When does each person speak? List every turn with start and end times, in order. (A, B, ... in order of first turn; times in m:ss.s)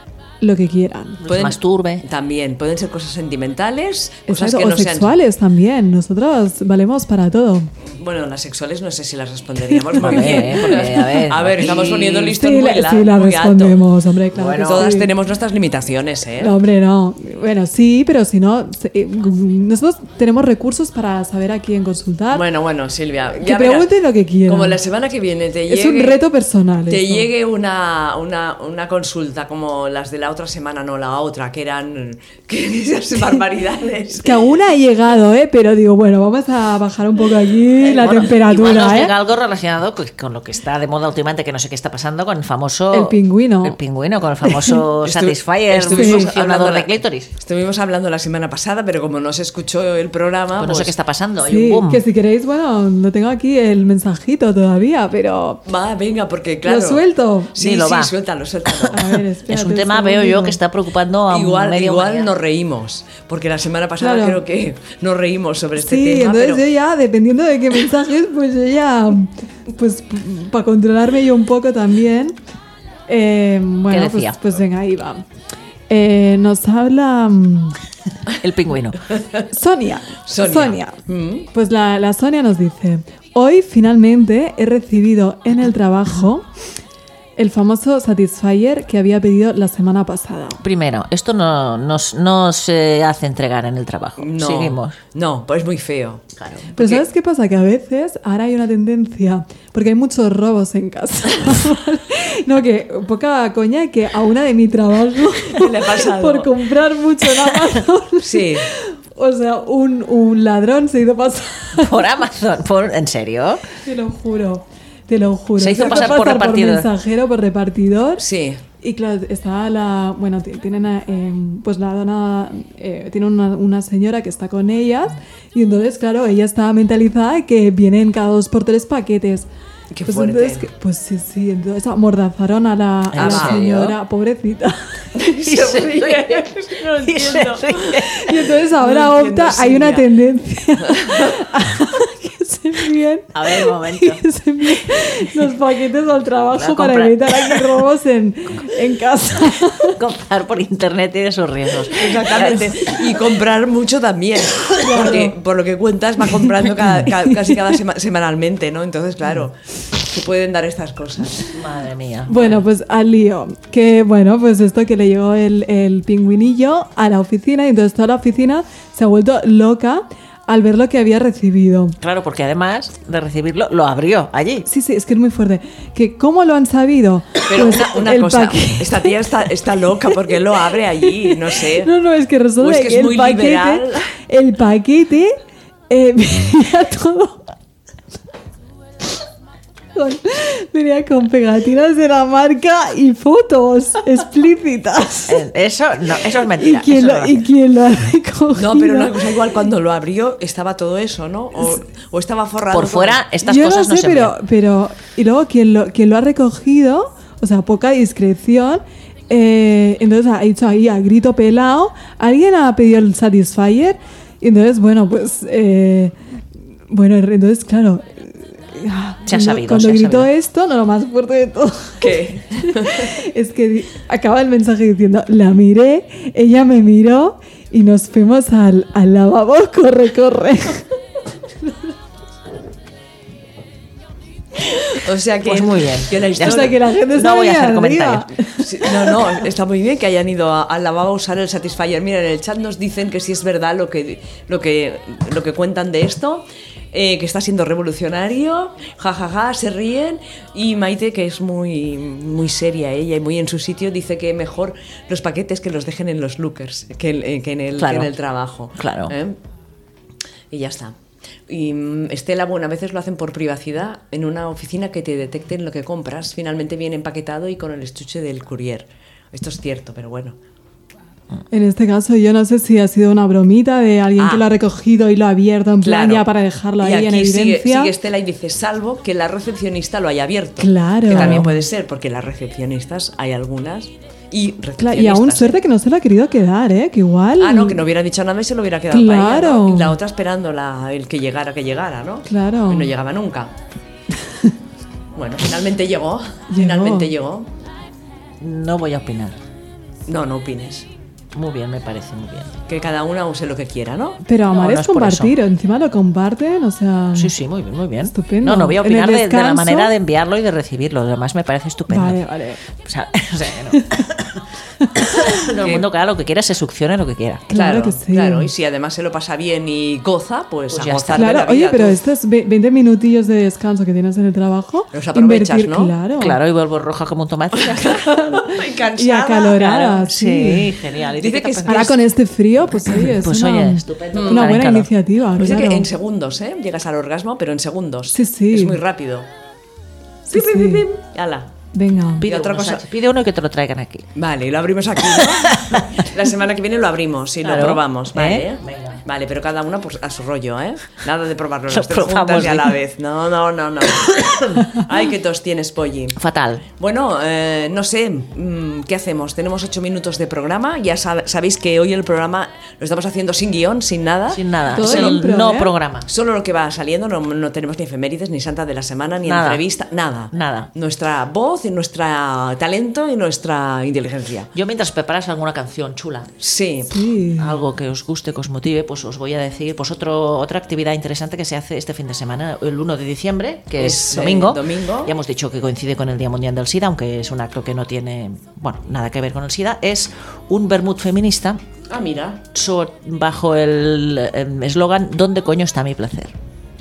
0:00.4-0:01.2 A
0:01.2-0:02.0 B
0:01.3-0:05.2 C
0:04.3-0:07.7 A
0:07.8-0:13.8 C
0:09.9-0:11.0 A
0:10.0-0:12.3 B
0:12.2-0:15.1 A
0:14.3-0:14.9 B
0:14.6-0:16.5 C
0:16.4-0:22.4 A
0:22.3-0:23.9 C
0:23.4-0:24.8 A
0:24.4-0:26.2 C
0:25.7-0:27.3 A
0:26.9-0:34.5 C
0:34.2-0:39.1 A
0:37.8-0:47.3 B
0:42.9-0:43.8 A
0:44.4-0:44.8 A
0:45.0-0:50.9 C
0:46.0-0:46.3 A
0:50.6-0:52.0 B
0:51.4-0:55.6 A
0:55.6-0:59.1 C
0:56.6-0:57.5 A
0:57.6-0:58.1 B
0:58.9-1:00.6 A
0:59.5-1:02.3 B
1:01.3-1:06.6 C
1:04.0-1:04.4 A
1:05.8-1:12.4 A
1:13.1-1:15.2 A
1:13.9-1:14.4 B
1:15.9-1:17.8 A
1:18.4-1:19.0 B
1:19.1-1:19.4 C
1:19.5-1:21.0 A
1:20.2-1:21.5 C
1:21.5-1:26.5 A
1:27.4-1:30.6 A
1:30.6-1:35.0 B
1:34.2-1:36.2 C
1:36.4-1:36.7 B
1:36.7-1:37.0 C
1:36.8-1:52.1 A
1:45.4-1:46.5 C
1:48.2-1:48.7 C
1:51.7-1:53.6 B
1:53.8-1:58.2 A
1:55.6-1:56.9 B
1:58.2-1:58.6 C
1:58.8-2:09.5 A
2:09.9-2:10.7 C
2:10.1-2:15.1 A
2:13.1-2:14.0 B
2:13.2-2:13.6 C
2:15.1-2:18.0 C
2:15.4-2:18.3 B
2:18.1-2:30.0 A
2:18.6-2:20.1 C
2:20.9-2:21.3 C
2:23.3-2:24.2 B
2:26.5-2:27.8 B
2:29.8-2:32.9 B
2:31.9-2:41.5 C
2:34.8-2:35.3 A
2:41.5-2:42.6 B
2:42.3-2:52.0 A
2:52.0-2:54.7 B
2:54.6-2:59.1 A
2:57.5-3:01.9 C
3:01.0-3:05.4 A
3:02.6-3:04.1 C
3:05.9-3:07.5 A
3:09.9-3:15.4 A
3:15.3-3:17.4 B
3:16.5-3:19.2 A
3:18.5-3:23.2 C
3:22.7-3:24.4 B
3:23.4-3:36.1 A
3:36.9-3:50.8 A
3:39.2-3:40.3 B
3:42.0-3:43.1 C
3:54.9-3:56.8 C
3:55.4-3:58.3 B
3:56.4-3:59.2 A
3:58.5-4:19.4 C
4:17.8-4:18.1 B
4:18.8-4:19.1 B
4:20.5-4:20.9 C
4:21.5-4:30.4 C
4:31.5-4:37.9 A
4:34.2-4:34.5 C
4:35.8-4:36.3 C
4:36.8-4:45.6 C
4:40.6-4:41.6 A
4:44.8-4:47.8 A
4:47.4-4:53.5 C
4:48.9-4:50.0 A
4:52.3-4:52.9 A
4:55.2-4:57.5 C
4:56.5-4:57.1 A
4:58.4-4:59.4 B
5:00.1-5:00.9 C
5:01.3-5:02.5 B
5:02.7-5:04.2 C
5:04.2-5:07.3 A
5:04.5-5:05.4 B
5:07.1-5:14.4 B
5:08.1-5:09.9 A
5:11.9-5:12.6 A
5:15.0-5:17.4 B
5:15.6-5:15.8 C
5:17.5-5:18.5 A
5:17.5-5:22.0 C
5:20.7-5:21.3 B
5:21.1-5:26.4 A
5:24.9-5:25.9 C
5:26.2-5:28.1 B
5:27.6-5:29.9 C
5:28.1-5:30.7 A
5:29.5-5:32.0 B
5:31.1-5:32.0 C
5:31.7-5:35.9 A
5:32.8-5:34.9 B
5:34.1-5:34.5 C
5:35.4-5:39.3 C
5:38.1-5:38.8 A
5:40.2-5:40.8 A
5:40.3-5:41.5 C
5:41.7-5:42.3 A
5:42.2-5:44.1 B
5:42.2-5:42.9 C
5:44.2-5:56.2 C
5:45.1-5:45.9 B
5:47.4-5:49.0 B
5:51.7-5:52.8 B
5:54.1-5:54.6 B
5:56.2-5:56.6 B
5:56.8-6:05.2 C
6:04.3-6:06.1 B
6:04.7-6:05.7 A
6:06.0-6:14.5 C
6:09.2-6:09.6 B
6:10.3-6:10.7 B
6:14.5-6:16.3 B
6:16.4-6:17.0 C
6:16.9-6:17.6 A
6:17.4-6:31.6 B
6:23.8-6:25.1 C
6:31.9-6:32.4 C
6:32.5-6:36.3 B